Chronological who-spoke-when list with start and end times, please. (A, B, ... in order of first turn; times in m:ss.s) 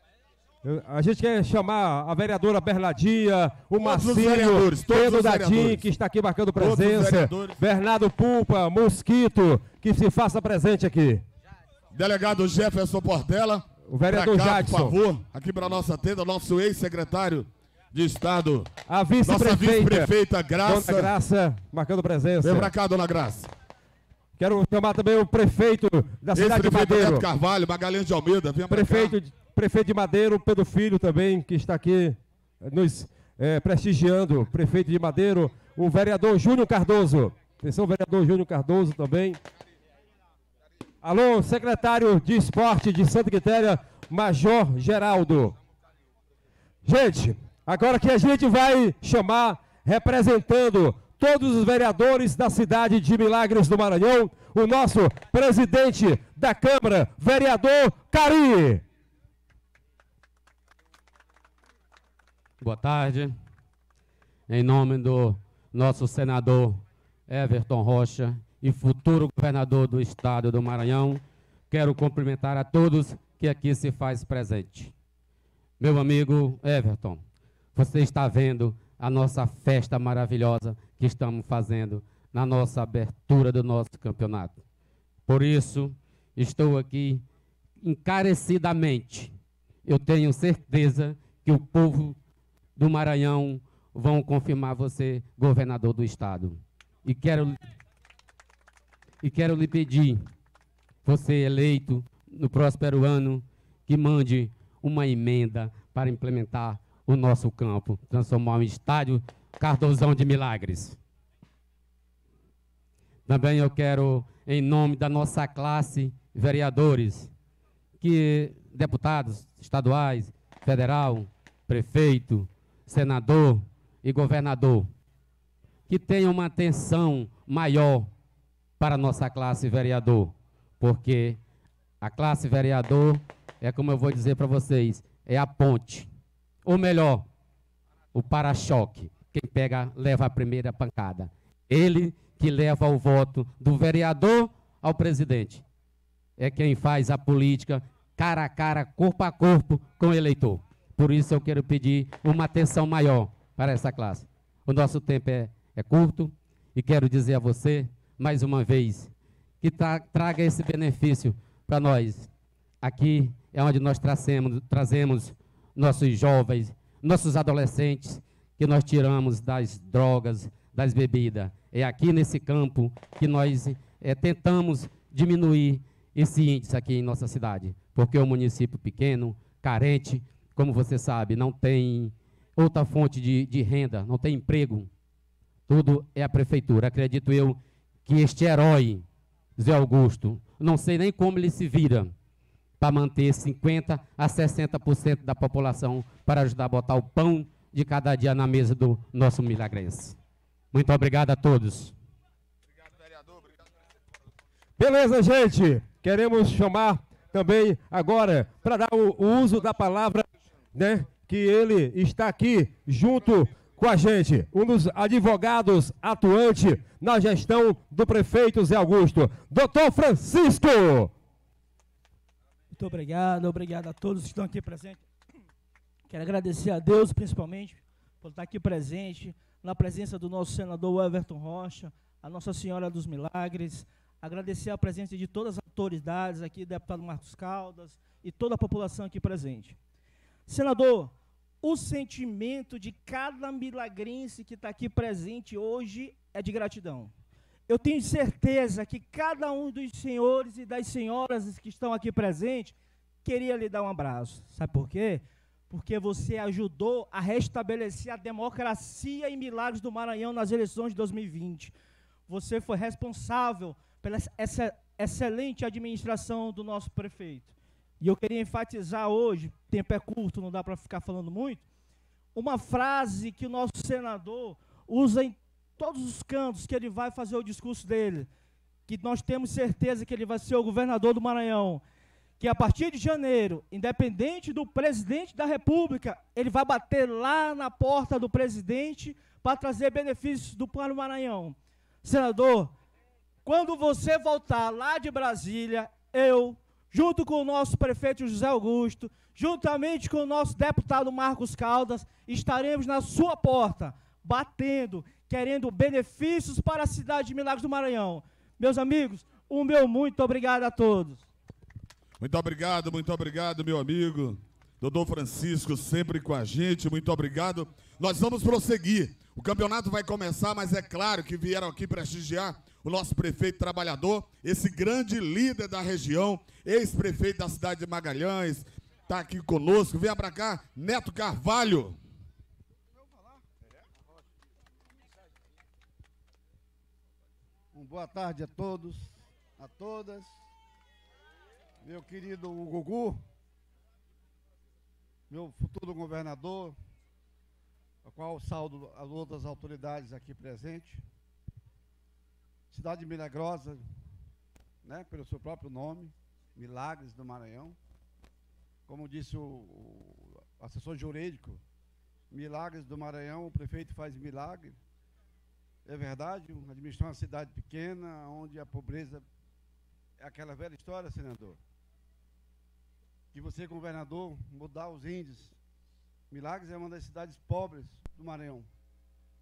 0:00.6-0:11.2 A
0:03.8-0:05.9 B
0:06.6-0:07.6 B
0:11.9-0:18.7 B
0:13.9-0:15.0 A
0:18.9-0:20.1 A
0:19.2-0:21.1 B
0:20.6-0:22.7 A
0:22.4-0:23.5 B
0:24.4-0:27.3 A
0:26.3-0:29.2 B
0:28.7-0:39.4 A
0:41.0-0:45.6 A
0:46.8-0:58.8 A
1:02.6-1:03.4 C
1:04.5-1:14.9 C
1:15.8-1:17.2 C
1:17.8-1:24.6 C
1:25.3-1:27.2 C
1:27.8-1:29.3 C
1:29.9-1:32.2 C
1:32.8-1:37.6 C
1:39.2-1:40.3 C
1:41.0-1:51.0 C
1:53.3-1:57.3 C
1:58.0-2:04.9 C
2:05.9-2:08.1 C
2:08.8-2:11.4 C
2:12.0-2:16.1 C
2:16.6-2:17.3 C
2:18.1-2:25.6 C
2:26.4-2:42.3 C
2:42.8-3:04.9 C
3:05.7-3:09.0 C
3:09.6-3:12.1 C
3:12.8-3:20.2 C
3:20.7-3:21.9 C
3:24.8-3:41.1 A
3:42.7-3:45.0 D
3:46.1-3:59.8 D
4:00.5-4:07.1 D
4:07.7-4:21.7 D
4:22.3-4:31.6 D
4:32.4-4:38.3 D
4:38.9-4:41.8 D
4:42.4-4:52.7 D
4:53.4-5:11.2 D
5:12.2-5:32.0 B
5:37.7-5:40.3 E
5:41.8-5:43.2 E
5:45.3-5:46.8 E
5:48.0-5:51.0 E
5:52.7-5:53.8 E
5:54.8-5:57.8 E
5:58.9-6:01.6 E
6:02.3-6:04.8 E
6:05.9-6:09.2 E
6:10.2-6:11.6 E
6:13.3-6:15.6 E
6:16.3-6:18.7 E